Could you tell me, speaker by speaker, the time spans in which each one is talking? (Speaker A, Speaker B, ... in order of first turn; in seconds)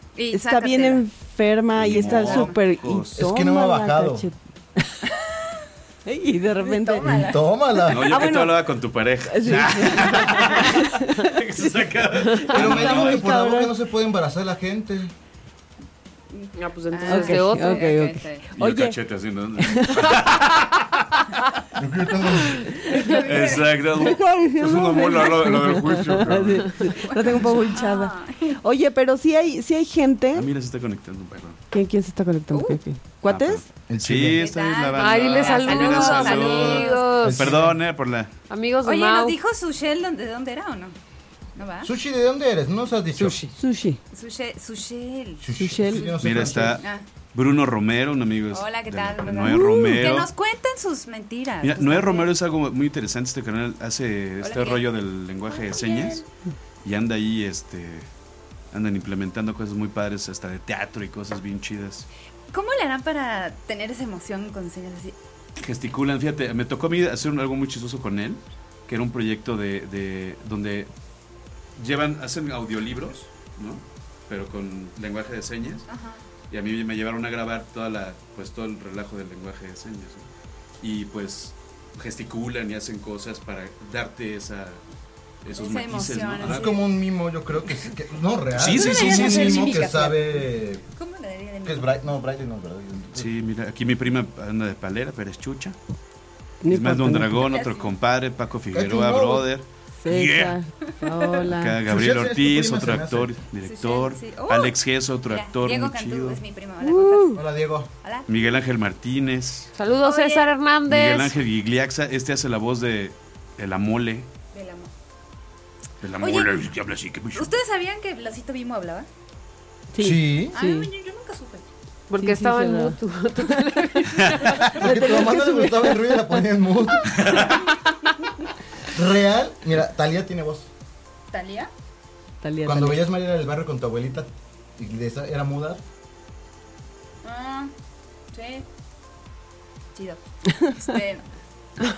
Speaker A: 0.2-1.0, 1.9-2.6, 6.6-7.5, 16.3-18.5, 22.9-24.1, 26.8-28.6, 32.5-32.8, 34.3-37.3, 38.8-41.0, 41.6-41.9, 44.1-45.4, 48.5-52.3, 54.4-54.8, 55.5-56.2, 62.5-65.2, 75.9-76.2, 85.5-86.8, 88.7-90.4, 91.0-91.9, 97.5-97.9, 103.7-104.8, 105.3-107.5, 110.0-110.5, 114.5-114.9, 116.2-116.5, 117.3-119.1, 120.5-121.7, 131.3-131.7, 137.2-137.7, 138.3-138.7, 139.9-141.3
Speaker B: 0.3-5.1, 6.1-8.7, 9.3-13.7, 17.1-19.0, 19.6-20.4, 22.9-23.3, 23.9-30.5, 31.7-33.6, 43.1-44.0, 45.5-46.1, 49.4-50.0, 96.6-97.5, 100.0-101.8, 106.8-107.4, 119.9-120.9, 122.2-126.1, 132.4-133.1
Speaker C: 1.8-3.2, 7.9-13.2, 18.6-21.4, 22.5-26.9, 30.3-31.6, 33.3-38.3, 46.2-46.8, 47.3-50.3, 51.6-56.2, 56.8-58.1, 58.7-62.1, 65.6-70.9, 71.8-75.9, 76.5-80.3, 80.8-84.8, 85.4-86.7, 88.5-89.8, 93.2-95.8, 96.7-100.6, 101.5-106.4, 108.3-109.7, 110.9-114.3, 116.0-117.5, 124.2-124.8, 127.1-127.6
Speaker D: 3.1-4.3, 7.0-8.2, 12.5-15.1, 21.8-22.7, 33.9-34.5, 37.2-37.8, 41.8-43.4, 45.4-46.8, 86.4-90.8, 91.6-93.3, 98.7-99.5, 101.8-103.3, 107.3-107.9, 120.0-120.6, 124.7-127.4, 128.9-130.7, 132.6-135.8
Speaker E: 16.6-18.0, 35.0-37.5, 38.5-39.4, 109.8-111.4, 122.1-124.8